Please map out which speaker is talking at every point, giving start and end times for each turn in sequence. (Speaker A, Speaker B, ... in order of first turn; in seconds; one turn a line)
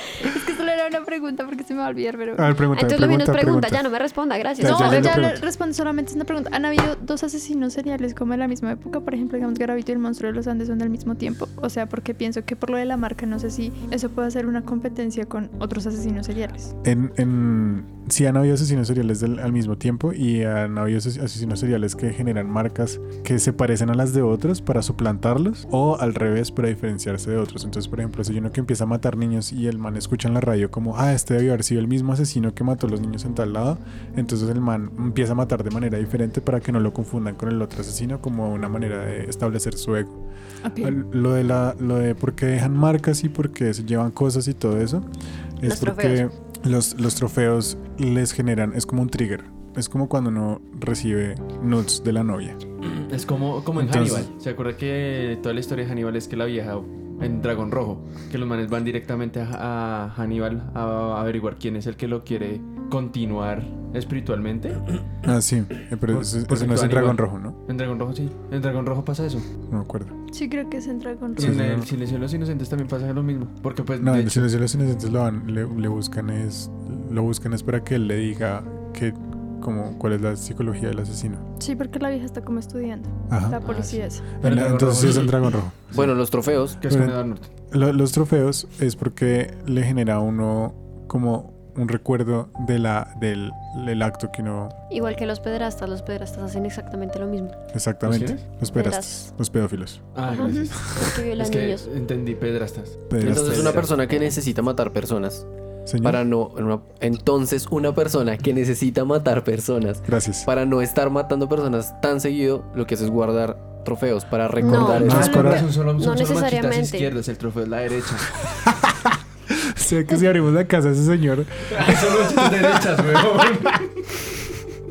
Speaker A: 0.1-2.5
Speaker B: 2.4-3.8
Speaker C: 2.7-5.3
Speaker B: 4.6-5.4
Speaker A: 4.6-16.7
Speaker B: 16.8-40.1
Speaker A: 40.6-41.0
Speaker B: 40.8-45.1
Speaker B: 45.6-52.6
Speaker C: 45.6-46.2
Speaker D: 52.8-64.8
Speaker B: 53.8-54.3
Speaker B: 65.2-67.6
Speaker D: 66.1-69.5
Speaker B: 69.7-70.2
Speaker A: 70.3-71.6
Speaker D: 71.4-74.5
Speaker B: 71.4-71.9
Speaker B: 74.0-81.4
Speaker A: 81.6-84.2
Speaker B: 83.3-83.6
Speaker D: 83.6-86.1
Speaker B: 84.4-85.9
Speaker E: 85.9-86.8
Speaker D: 86.8-87.5
Speaker B: 86.9-87.2
Speaker B: 87.7-94.8
Speaker C: 94.9-97.6
Speaker B: 97.7-101.1
Speaker D: 98.0-98.4
Speaker C: 98.7-99.3
Speaker D: 100.2-103.9
Speaker C: 100.3-101.9
Speaker B: 103.1-103.9
Speaker E: 103.2-105.5
Speaker B: 105.9-106.2
Speaker E: 106.0-115.5
Speaker B: 110.1-110.5
Speaker C: 114.6-117.1
Speaker B: 114.6-115.7
Speaker D: 114.8-118.4
Speaker B: 118.5-123.8
Speaker D: 121.7-124.1